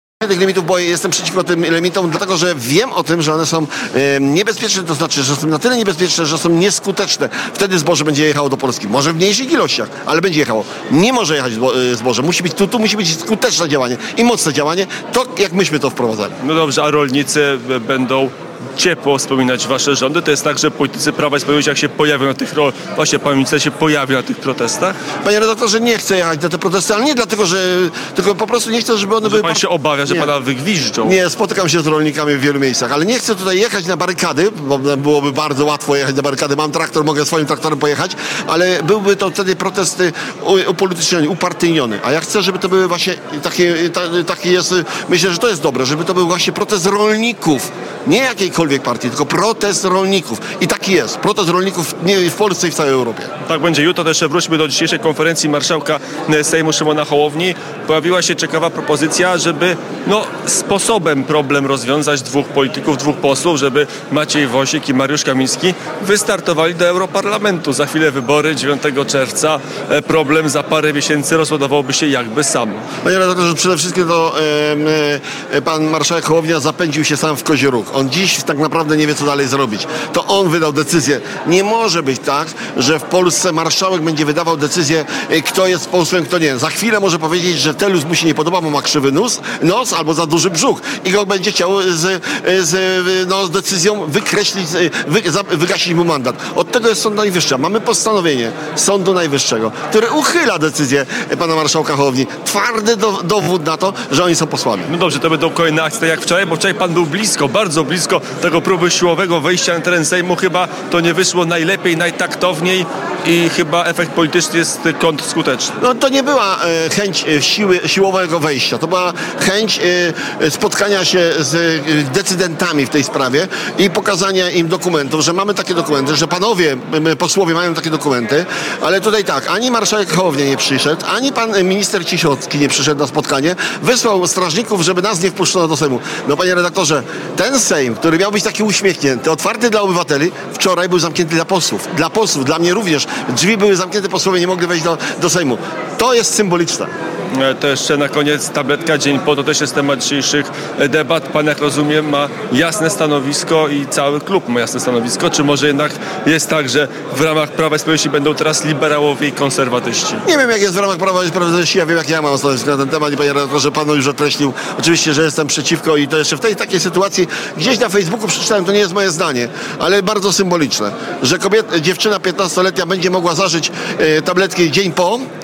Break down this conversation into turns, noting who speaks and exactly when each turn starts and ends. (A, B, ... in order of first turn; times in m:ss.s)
0:00.2-0:16.4 A
0:16.4-0:25.0 B
0:25.2-0:30.3 A
0:29.2-0:31.2 B
0:31.0-0:53.3 A
0:53.5-1:12.8 B
1:13.0-1:44.9 A
1:44.9-1:55.8 B
1:55.8-2:26.9 A
2:27.3-2:40.2 B
2:40.2-2:55.2 A